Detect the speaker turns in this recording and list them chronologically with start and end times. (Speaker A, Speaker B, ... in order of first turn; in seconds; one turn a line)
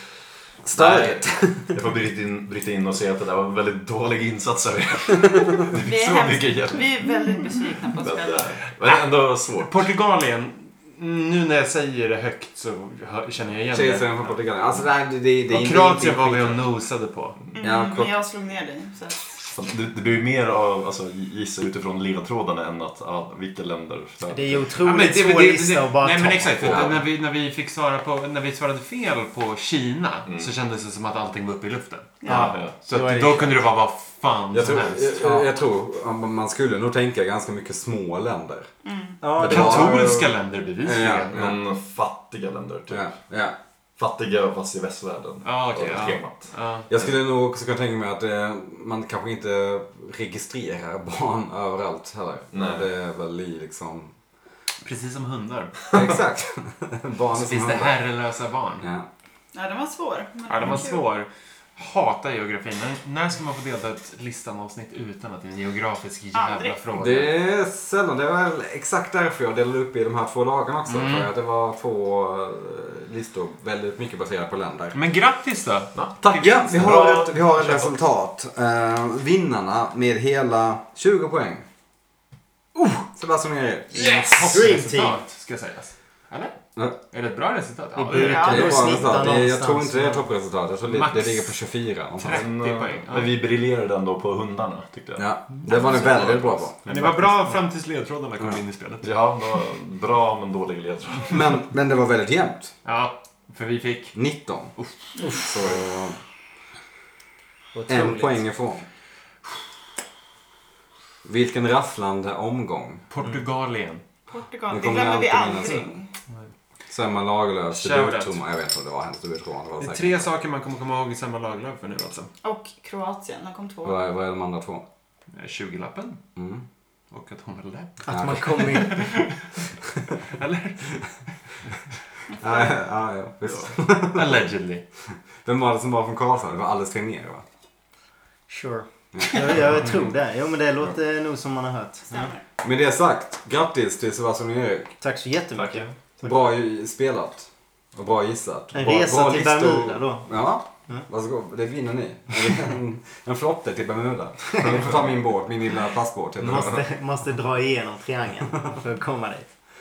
Speaker A: 0.6-1.7
Speaker B: 0.7-7.1
Speaker C: 5.7-8.6
Speaker B: 8.0-9.8
Speaker D: 9.6-14.4
Speaker A: 13.7-16.6
Speaker D: 15.5-17.4
Speaker C: 17.6-19.4
Speaker A: 17.6-18.1
Speaker B: 19.5-24.7
Speaker E: 24.3-26.8
Speaker D: 24.8-35.3
Speaker A: 26.6-26.9
Speaker C: 32.2-32.6
Speaker E: 32.3-33.6
Speaker B: 32.3-32.7
Speaker A: 34.5-38.7
Speaker C: 38.8-39.2
Speaker E: 39.2-40.1
Speaker A: 39.4-41.5
Speaker D: 39.4-41.5
Speaker B: 41.3-43.1
Speaker A: 42.9-43.5
Speaker B: 44.0-47.1
Speaker D: 45.4-46.9
Speaker A: 46.9-54.1
Speaker B: 52.5-52.9
Speaker D: 54.8-56.0
Speaker A: 55.9-58.0
Speaker D: 57.3-58.9
Speaker A: 58.8-59.1
Speaker C: 59.5-61.0
Speaker D: 60.5-67.3
Speaker C: 66.3-66.8
Speaker A: 67.0-75.0
Speaker D: 70.9-71.3
Speaker D: 74.9-76.0
Speaker B: 75.9-77.9
Speaker A: 76.4-81.6
Speaker A: 83.1-85.2
Speaker D: 83.9-86.5
Speaker D: 87.1-88.5
Speaker E: 88.0-90.2
Speaker C: 88.1-89.1
Speaker A: 88.2-92.4
Speaker D: 90.9-91.6
Speaker D: 92.2-93.4
Speaker B: 92.3-97.0
Speaker A: 95.2-96.8
Speaker D: 96.8-99.1
Speaker B: 99.0-101.4
Speaker A: 101.3-102.7
Speaker D: 102.8-104.2
Speaker A: 104.1-104.7
Speaker A: 105.3-106.2
Speaker E: 107.7-108.4
Speaker A: 107.9-108.8
Speaker A: 111.2-113.0
Speaker D: 113.1-114.0
Speaker C: 114.3-116.1
Speaker A: 114.7-115.8
Speaker A: 116.9-120.2
Speaker D: 117.7-118.4
Speaker D: 119.8-122.3
Speaker C: 122.4-124.0
Speaker A: 123.8-124.8
Speaker D: 125.3-126.2
Speaker A: 126.3-126.6
Speaker D: 127.1-129.6
Speaker E: 128.0-129.0
Speaker A: 128.1-128.7
Speaker D: 130.2-131.2
Speaker A: 132.4-134.4
Speaker D: 133.6-134.8
Speaker A: 135.4-137.4
Speaker E: 138.5-142.3
Speaker A: 139.1-139.9
Speaker C: 142.1-142.4
Speaker A: 142.6-144.9
Speaker E: 145.0-146.3
Speaker B: 145.6-145.9
Speaker A: 146.2-156.8
Speaker E: 148.7-150.3
Speaker E: 156.4-159.5